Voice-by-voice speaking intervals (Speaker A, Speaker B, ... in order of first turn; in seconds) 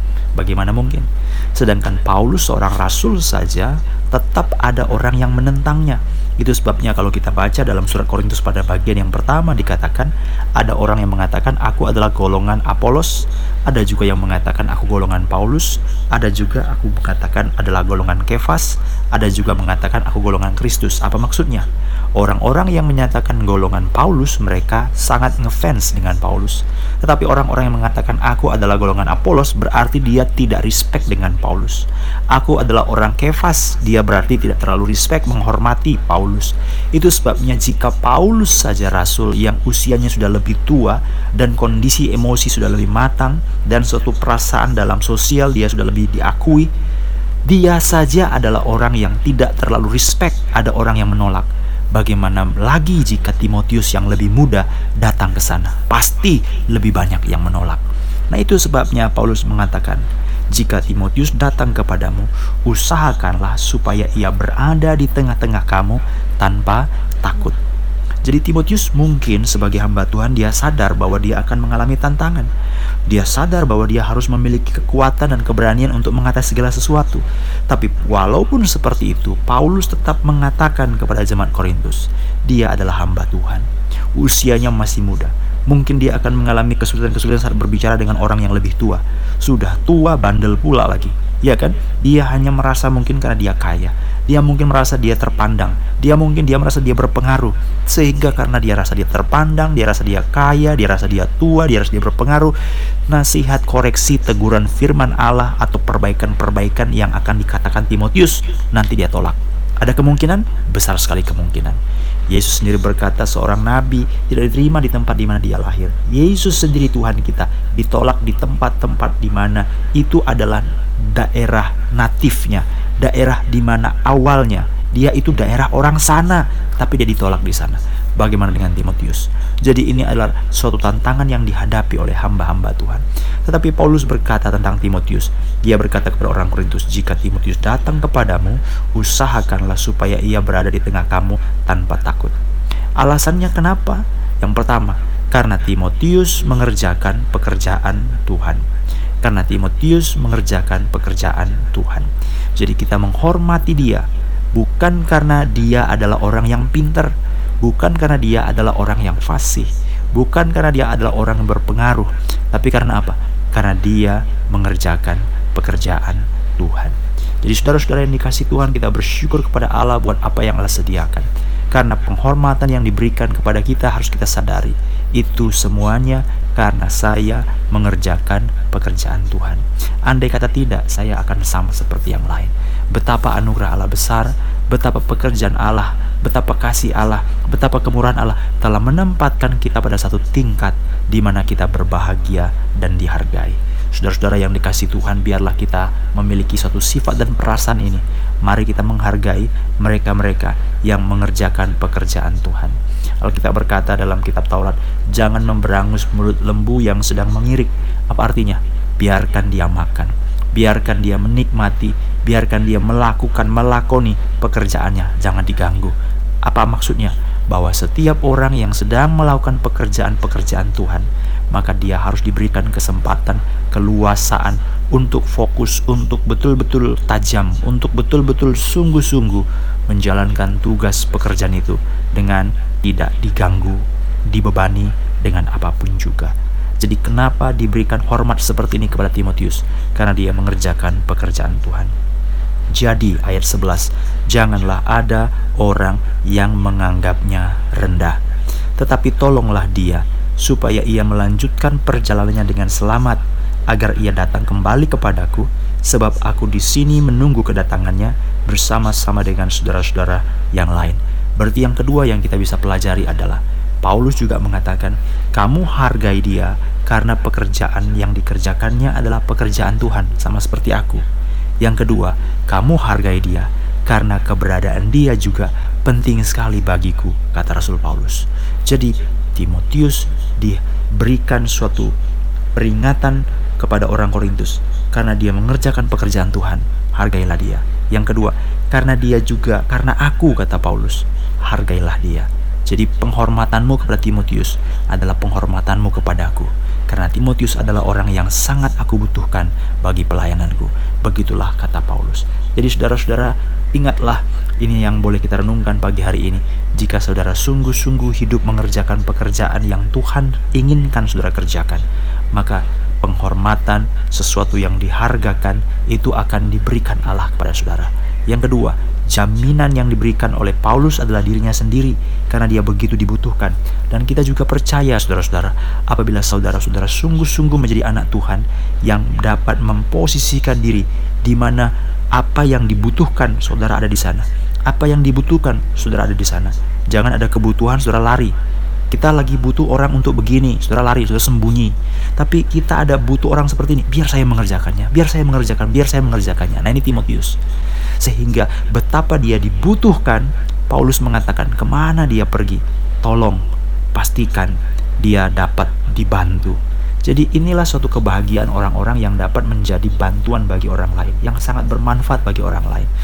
Speaker A: 0.3-46.7, 47.5-67.6, 68.2-72.5, 73.1-102.5, 103.1-142.3, 143.0-148.6, 149.2-215.9, 216.4-241.9, 242.7-248.2, 248.8-271.0, 271.6-281.9, 282.5-338.3, 338.9-347.4, 348.0-362.9